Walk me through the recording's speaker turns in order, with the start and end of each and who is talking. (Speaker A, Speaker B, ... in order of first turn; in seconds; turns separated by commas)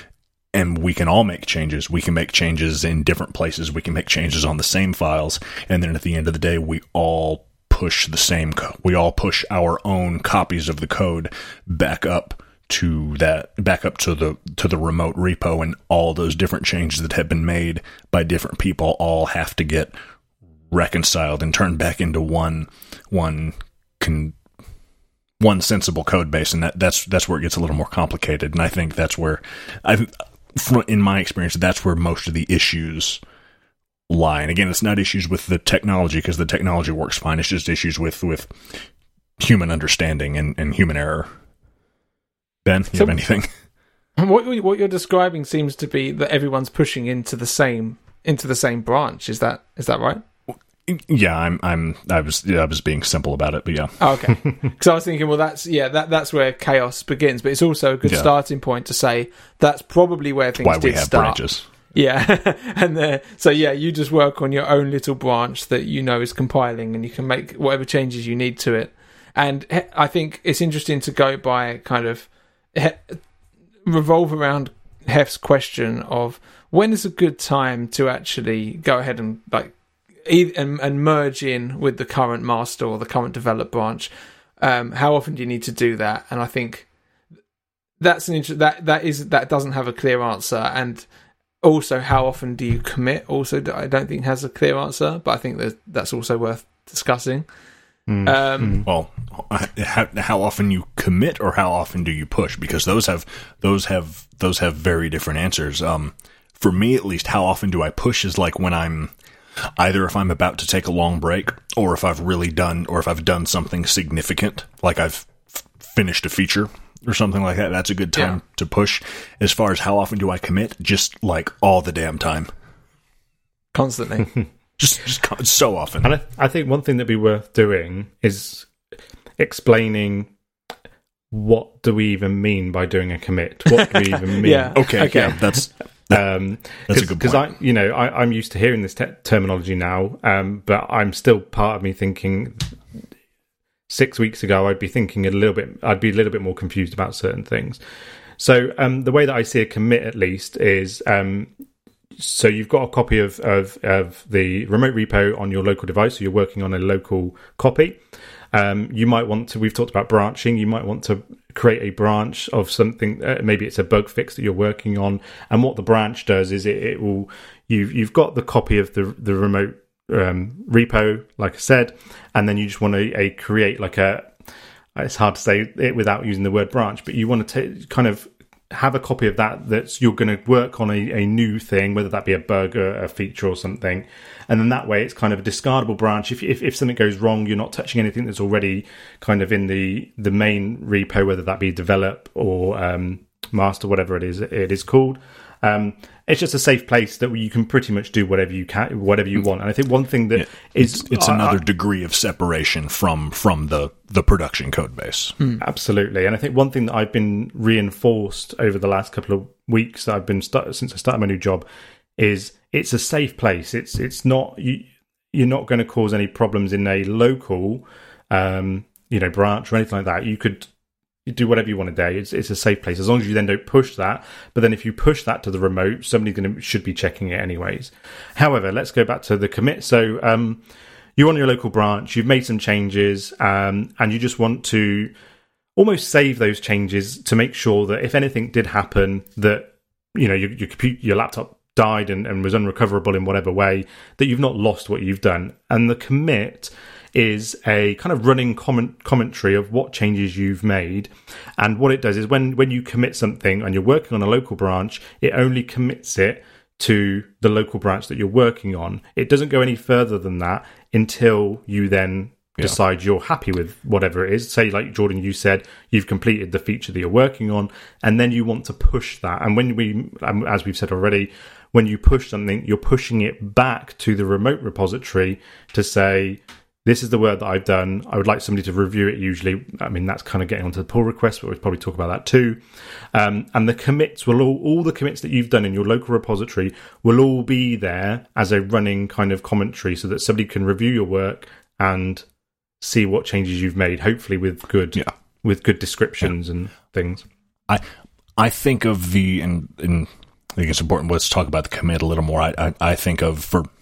Speaker A: 0.5-19.9, Speaker A: 20.7-24.3, Speaker A: 25.4-33.2, Speaker A: 34.1-38.8, Speaker A: 39.4-41.3, Speaker A: 42.6-43.5, Speaker B: 44.2-50.2, Speaker A: 50.8-54.0, Speaker B: 54.0-61.4, Speaker A: 58.0-58.3, Speaker A: 60.6-61.6, Speaker B: 61.9-73.2, Speaker B: 73.8-86.9, Speaker B: 88.0-91.1, Speaker B: 91.6-97.5, Speaker C: 98.1-98.9, Speaker B: 98.2-98.8, Speaker A: 98.8-109.1, Speaker A: 109.8-122.5, Speaker B: 123.7-124.3, Speaker A: 124.8-126.1, Speaker C: 126.0-128.7, Speaker C: 129.4-130.3, Speaker C: 131.3-135.4, Speaker B: 134.4-135.4, Speaker A: 134.7-136.2, Speaker C: 136.1-142.7, Speaker A: 136.9-137.4, Speaker C: 143.9-147.8, Speaker C: 148.4-151.5, Speaker C: 152.2-158.0, Speaker C: 158.5-174.3, Speaker C: 174.9-201.6, Speaker A: 200.3-205.4, Speaker C: 205.6-211.6, Speaker C: 212.2-220.7, Speaker C: 221.3-230.6, Speaker C: 231.2-235.1, Speaker C: 235.8-282.6, Speaker C: 283.1-292.2, Speaker C: 292.8-297.2, Speaker A: 298.4-303.7